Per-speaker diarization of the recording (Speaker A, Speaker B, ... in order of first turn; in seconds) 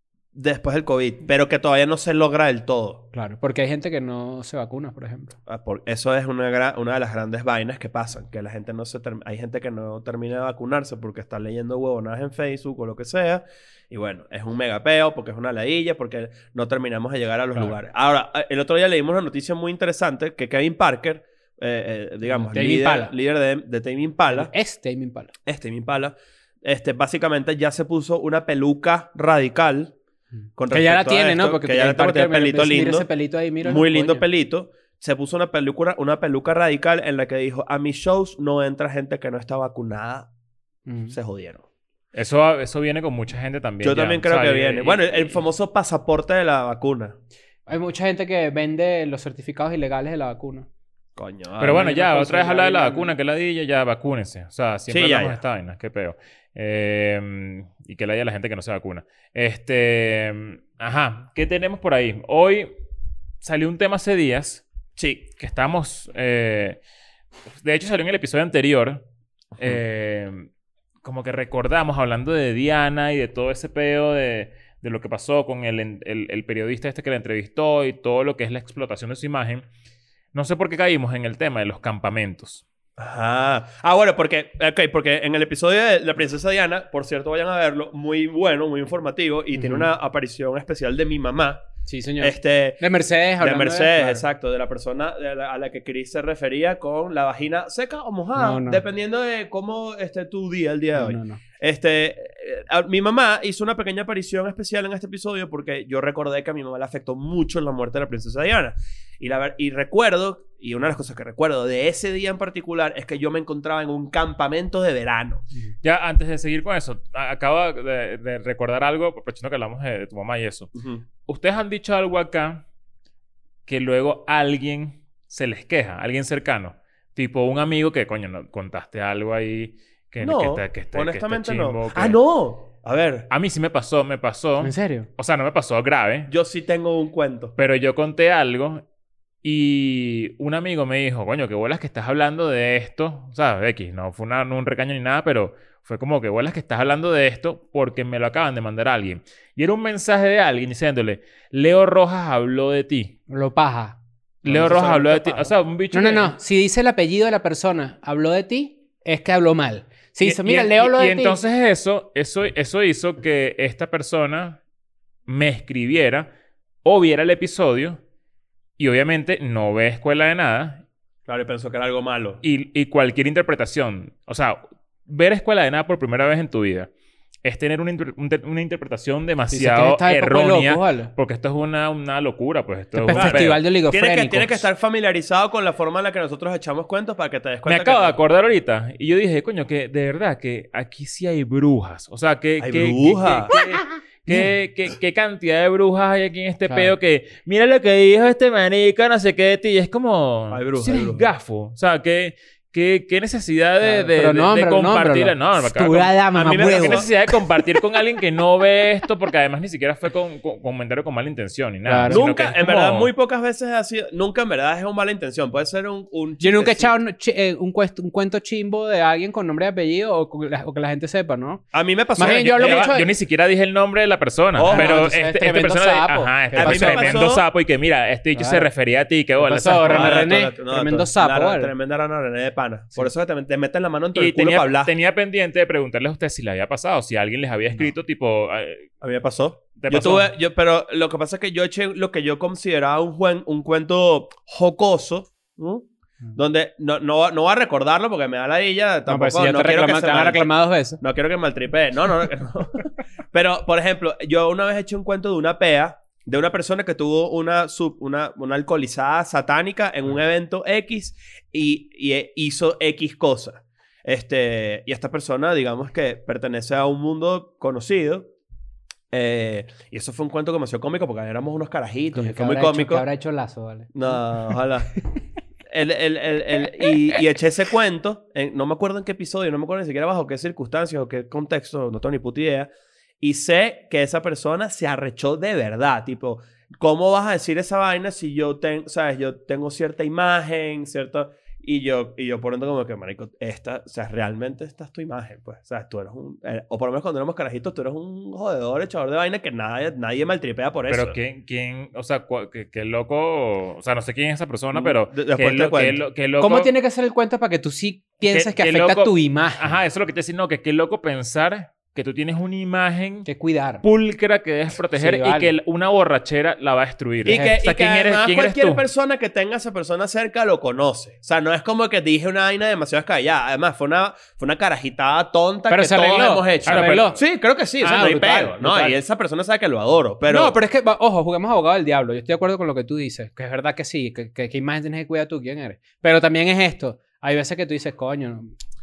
Speaker A: 0.3-3.0, 5.5-24.5, 25.5-29.9, 30.6-33.1, 33.6-40.3, 41.1-41.6, 43.8-47.2, 51.2-53.0, 54.9-55.4, 65.0-65.3, 83.0-91.6, 92.2-92.8, 93.4-115.5, 120.8-121.0, 130.2-133.3, 136.3-137.5, 154.4-155.5, 171.3-172.4, 183.1-188.2, 192.6-193.5, 200.5-201.3, 206.3-207.1, 212.1-216.9, 221.7-222.9, 224.6-225.0, 226.5-227.4, 229.9-234.9, 239.0-268.3, 269.1-273.1, 273.9-274.9, 275.7-301.2, 304.7-306.0, 317.2-330.6
Speaker B: 3.1-5.4, 22.3-23.1, 24.3-25.3, 30.7-34.2, 40.9-41.1, 47.7-50.7, 89.5-89.9, 91.9-94.2, 98.4-98.8, 100.9-101.4, 134.6-135.1, 153.3-154.0, 155.9-161.4, 179.5-181.1, 182.9-184.7, 196.7-196.9, 203.8-207.3, 211.9-212.3, 216.4-221.6, 222.2-223.1, 224.7-227.3, 228.3-228.7, 229.4-231.7, 249.1-251.0, 272.1-274.2, 306.4-309.7, 313.3-313.8, 315.0-315.5, 317.3-317.6, 325.7-327.2, 327.8-329.0, 330.3-338.5
Speaker C: 42.1-45.4, 51.6-62.7, 63.4-64.6, 65.4-66.8, 67.6-69.0, 69.6-70.5, 71.0-79.7, 80.3-82.6, 115.8-120.7, 121.3-122.6, 123.7-132.2, 133.3-136.3, 137.6-138.8, 139.4-153.2, 154.4-156.3, 160.2-164.6, 165.3-166.3, 166.8-168.0, 168.8-170.8, 172.4-176.9, 177.4-183.6, 187.7-213.1, 222.2-230.2, 234.2-238.9, 239.8-240.3, 300.9-306.7, 308.2-313.3, 313.8-318.8, 326.7-327.1